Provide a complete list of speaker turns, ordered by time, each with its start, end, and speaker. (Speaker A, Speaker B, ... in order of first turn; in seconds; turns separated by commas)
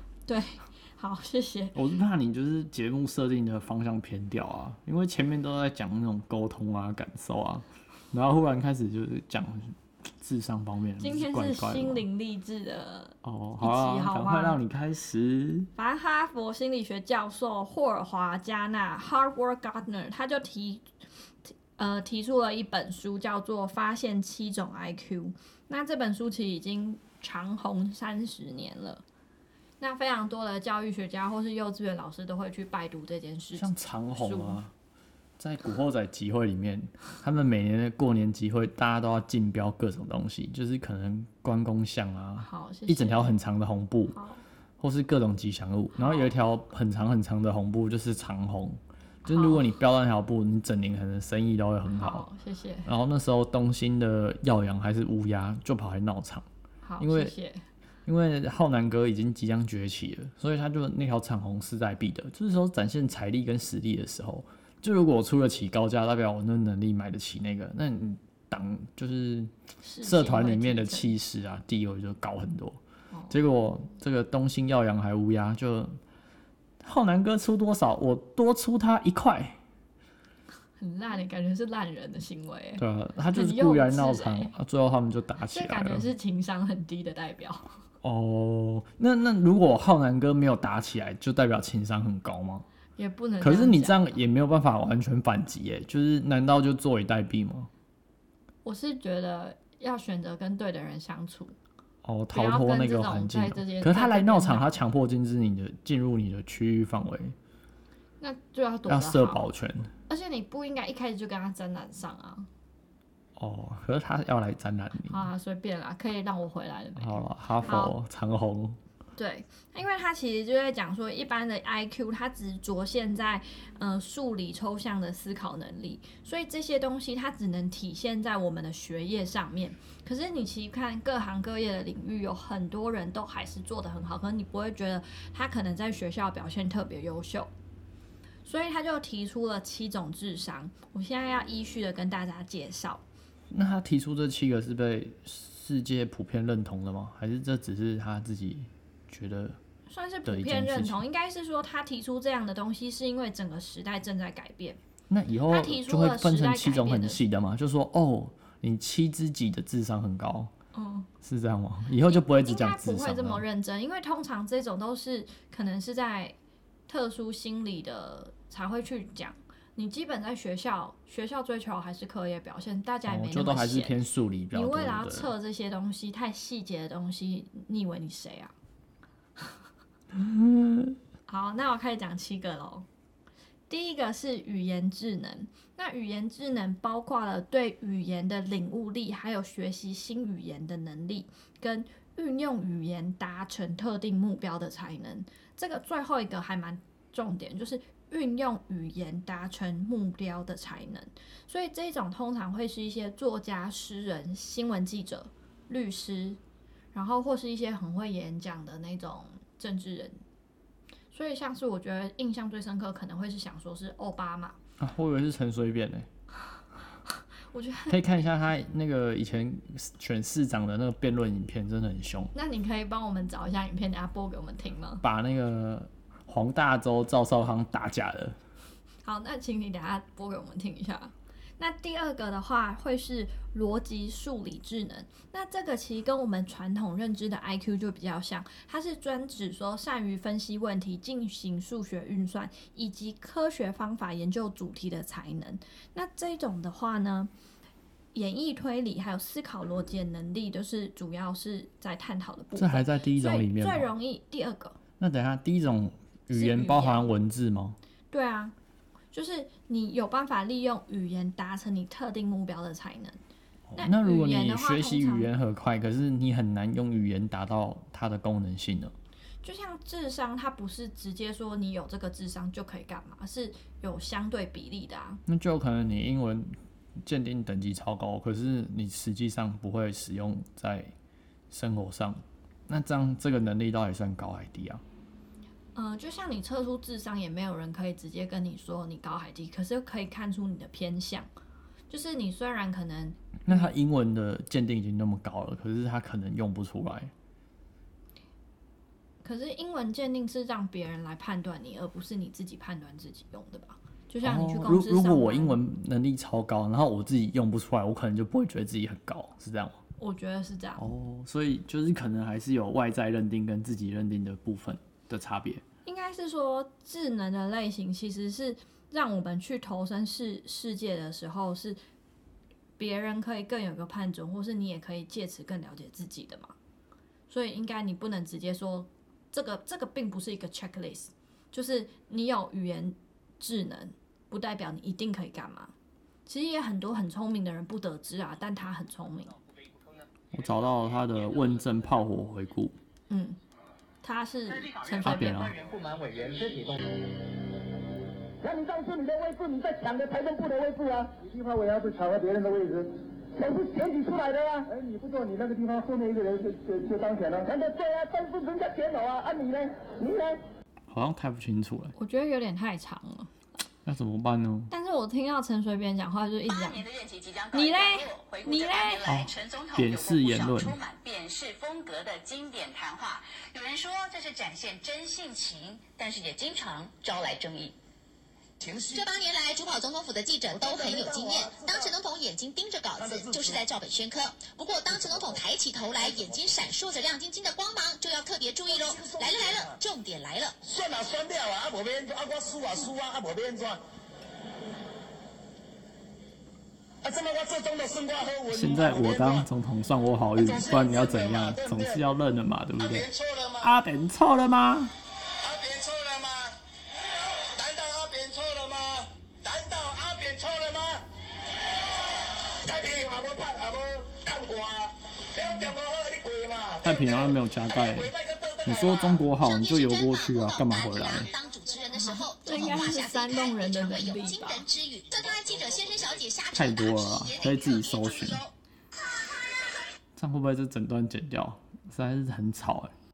Speaker A: 0.2-1.8, Speaker B: 1.7-12.0, Speaker A: 11.0-14.6, Speaker B: 13.2-15.7, Speaker A: 15.8-20.9, Speaker A: 21.4-29.0, Speaker A: 29.8-34.6, Speaker B: 33.5-34.7, Speaker B: 35.4-44.2, Speaker A: 42.4-43.4, Speaker A: 44.1-44.4, Speaker B: 44.8-52.3, Speaker A: 46.0-46.3, Speaker A: 49.2-49.6, Speaker A: 51.9-52.9, Speaker B: 52.8-56.5, Speaker A: 56.8-57.6, Speaker B: 57.0-57.3, Speaker B: 58.0-69.5, Speaker A: 69.8-71.1, Speaker B: 70.0-76.0, Speaker A: 73.1-73.4, Speaker B: 76.8-79.6, Speaker A: 80.8-84.5, Speaker B: 82.8-86.1, Speaker A: 85.5-87.7, Speaker B: 88.0-92.7, Speaker A: 93.0-94.2, Speaker B: 93.4-97.7, Speaker A: 98.6-101.5, Speaker B: 102.0-107.3, Speaker A: 102.3-104.8, Speaker A: 108.2-109.5, Speaker B: 108.9-109.9, Speaker A: 110.1-112.5, Speaker B: 113.4-115.2, Speaker A: 115.1-117.9, Speaker B: 117.0-118.8, Speaker A: 119.2-137.5, Speaker A: 138.4-143.0, Speaker B: 143.5-149.6, Speaker A: 149.9-154.8, Speaker B: 150.2-151.0, Speaker B: 155.1-160.5, Speaker A: 155.5-157.2, Speaker A: 160.7-161.1, Speaker B: 161.2-163.4, Speaker A: 162.0-166.3, Speaker A: 166.9-174.0, Speaker B: 173.1-175.3, Speaker A: 174.5-178.5, Speaker B: 180.1-181.0, Speaker A: 181.3-182.8, Speaker A: 183.7-206.4, Speaker A: 206.9-210.2, Speaker A: 211.1-214.6, Speaker B: 214.8-216.1, Speaker A: 217.5-218.0, Speaker B: 217.9-222.3, Speaker A: 222.3-225.0, Speaker B: 225.0-228.4, Speaker A: 229.0-247.3, Speaker A: 248.1-254.8, Speaker B: 252.6-253.9, Speaker B: 255.0-257.8, Speaker A: 256.3-257.1, Speaker A: 258.1-258.5, Speaker A: 259.1-263.2, Speaker B: 263.7-268.9, Speaker A: 263.8-265.3, Speaker A: 269.4-275.2, Speaker B: 275.2-276.5, Speaker B: 277.0-280.9, Speaker B: 281.5-284.8, Speaker A: 285.7-291.3, Speaker A: 291.9-293.7, Speaker B: 293.4-297.1, Speaker A: 299.2-305.6, Speaker B: 304.2-309.8, Speaker A: 310.0-310.8, Speaker B: 310.8-315.6, Speaker A: 315.8-321.8, Speaker A: 322.8-326.5, Speaker A: 327.3-335.7, Speaker A: 336.3-339.4, Speaker B: 340.3-342.8, Speaker A: 343.1-343.4, Speaker A: 344.0-345.5, Speaker B: 345.0-345.6, Speaker C: 346.2-346.7, Speaker C: 348.4-360.4, Speaker B: 360.9-361.9, Speaker A: 361.9-363.3, Speaker B: 363.8-364.7, Speaker A: 364.7-366.8, Speaker D: 366.5-377.8, Speaker A: 367.5-369.2, Speaker B: 369.0-370.8, Speaker C: 378.6-379.0, Speaker E: 378.9-390.6, Speaker C: 380.6-381.6, Speaker C: 383.1-383.5, Speaker C: 388.7-389.6, Speaker C: 390.6-393.8, Speaker C: 397.0-399.4, Speaker B: 398.5-403.1, Speaker C: 400.4-402.0, Speaker C: 402.8-403.7, Speaker B: 403.6-404.9, Speaker C: 405.4-406.6, Speaker C: 407.4-411.0, Speaker C: 412.5-419.2, Speaker B: 416.8-418.1, Speaker B: 418.6-421.3, Speaker E: 419.4-428.4, Speaker A: 421.9-424.6, Speaker B: 426.5-428.4, Speaker B: 430.1-432.9